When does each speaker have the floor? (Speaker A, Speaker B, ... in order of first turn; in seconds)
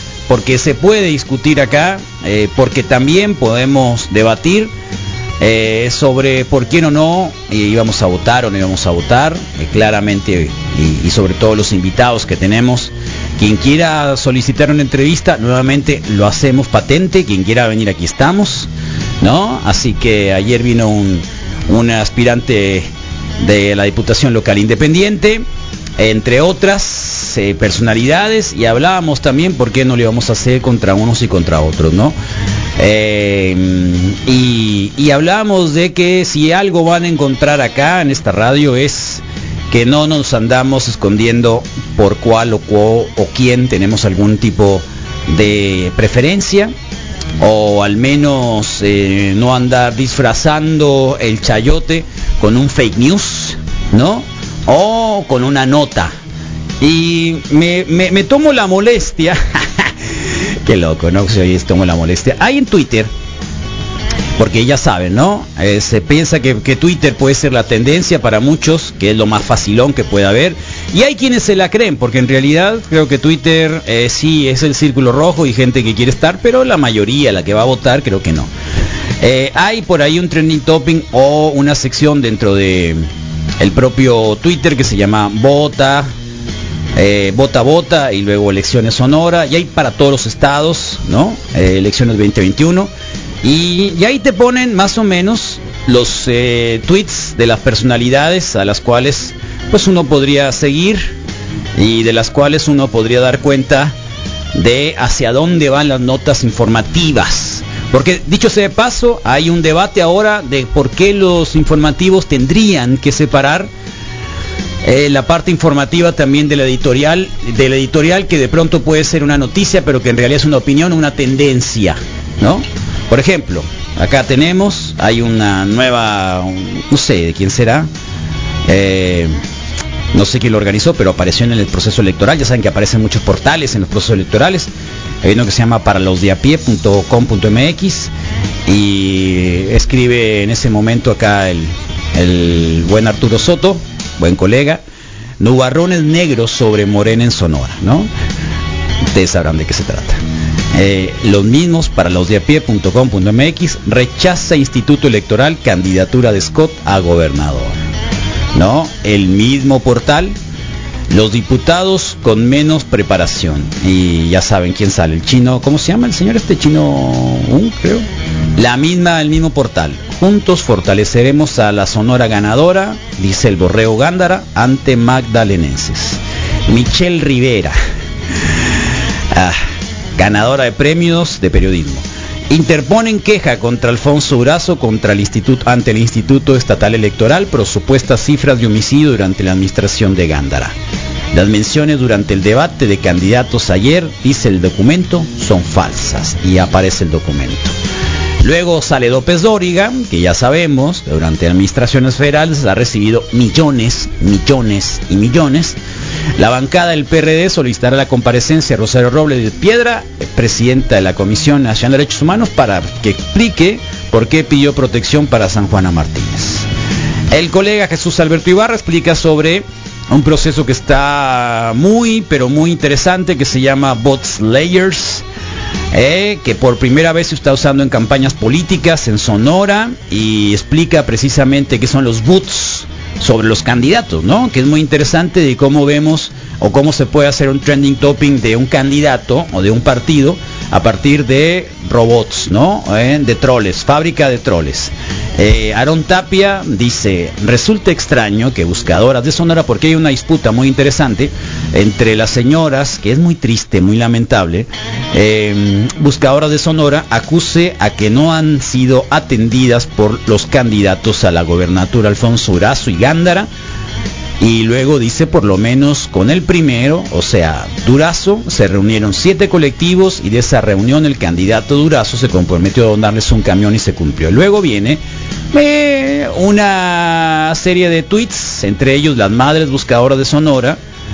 Speaker A: 0.3-4.7, 5.4-18.7, 19.2-25.4, 26.0-32.1, 32.8-46.7, 47.4-56.1, 56.8-63.1, 64.4-78.5, 79.2-83.0, 83.6-86.1, 87.0-92.9, 93.4-101.1, 101.8-103.9, 104.5-113.7, 114.8-127.9, 128.7-129.4, 130.1-134.7, 135.2-138.1, 138.7-144.8, 145.4-148.1, 149.1-150.2, 150.7-157.7, 158.5-160.3, 161.1-177.8, 179.3-179.6, 180.2-190.7, 191.3-197.7, 198.4-205.8, 206.4-216.7, 217.3-225.2, 225.9-263.5, 264.4-275.0, 275.5-280.8